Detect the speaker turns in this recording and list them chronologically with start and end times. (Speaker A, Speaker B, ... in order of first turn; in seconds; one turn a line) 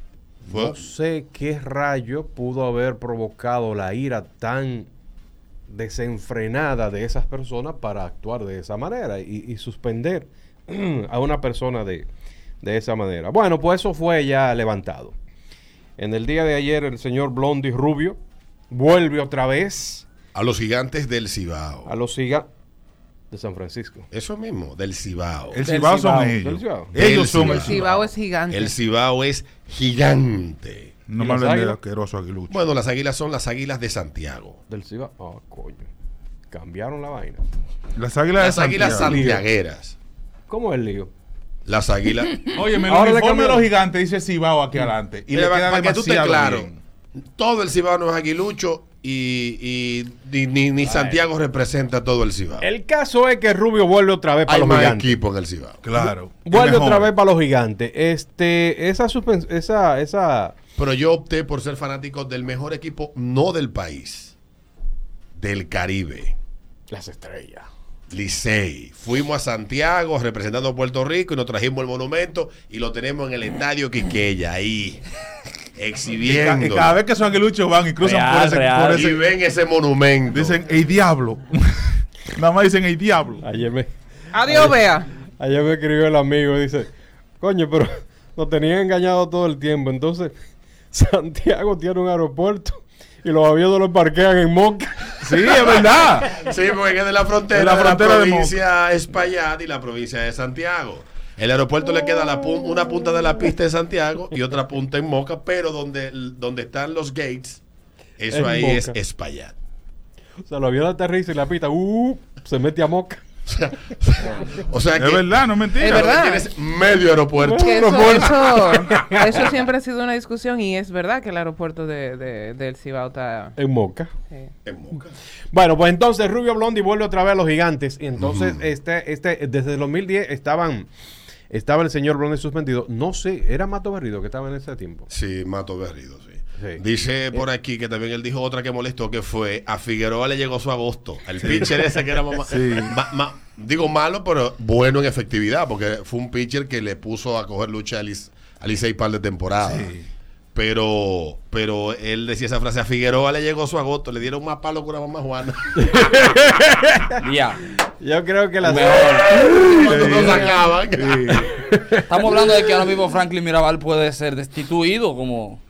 Speaker A: 0.4-4.9
Speaker B: 0.5-0.9
Speaker A: 5.7-12.1
Speaker A: 12.6-15.1
Speaker A: 16.0-20.1
Speaker B: 20.3-21.9
Speaker A: 21.9-22.5
Speaker A: 23.3-24.1
Speaker B: 24.1-25.6
Speaker C: 25.5-27.8
Speaker A: 25.6-26.9
Speaker B: 26.9-30.9
Speaker D: 27.5-28.8
Speaker C: 31.1-32.6
Speaker A: 31.2-31.8
Speaker B: 32.5-34.6
Speaker A: 34.7-35.9
Speaker A: 36.5-37.4
Speaker C: 38.0-39.2
Speaker B: 38.4-40.0
Speaker A: 38.8-39.5
Speaker A: 40.5-41.1
Speaker B: 41.6-42.5
Speaker C: 42.5-46.8
Speaker A: 42.8-43.7
Speaker B: 45.3-46.7
Speaker B: 47.3-52.7
Speaker A: 50.8-51.2
Speaker A: 52.6-55.2
Speaker B: 54.5-55.8
Speaker C: 55.8-57.1
Speaker A: 56.0-60.5
Speaker B: 60.8-64.3
Speaker B: 65.3-66.3
Speaker A: 66.9-67.7
Speaker B: 68.1-75.1
Speaker B: 75.8-77.0
Speaker C: 76.2-79.2
Speaker E: 78.0-79.1
Speaker B: 78.9-80.6
Speaker C: 80.3-83.4
Speaker A: 83.4-83.9
Speaker D: 84.3-85.1
Speaker A: 84.4-90.3
Speaker A: 90.9-95.8
Speaker C: 95.2-96.4
Speaker B: 96.3-107.6
Speaker C: 97.5-98.6
Speaker B: 108.2-109.5
Speaker A: 108.3-109.0
Speaker A: 110.4-113.2
Speaker B: 113.5-118.7
Speaker C: 115.0-116.0
Speaker D: 115.8-116.5
Speaker A: 117.5-119.5
Speaker D: 117.5-123.5
Speaker A: 123.5-124.1
Speaker B: 124.6-125.1
Speaker A: 125.5-130.9
Speaker B: 128.2-128.6
Speaker A: 131.5-135.1
Speaker B: 135.1-149.9
Speaker A: 136.6-137.4
Speaker C: 141.4-141.8
Speaker C: 142.4-142.9
Speaker C: 149.6-150.1
Speaker B: 150.5-155.6
Speaker A: 155.8-157.2
Speaker E: 157.2-157.6
Speaker A: 158.0-159.4
Speaker E: 158.6-159.5
Speaker B: 159.0-161.5
Speaker C: 159.8-161.5
Speaker A: 161.3-162.8
Speaker E: 162.1-165.6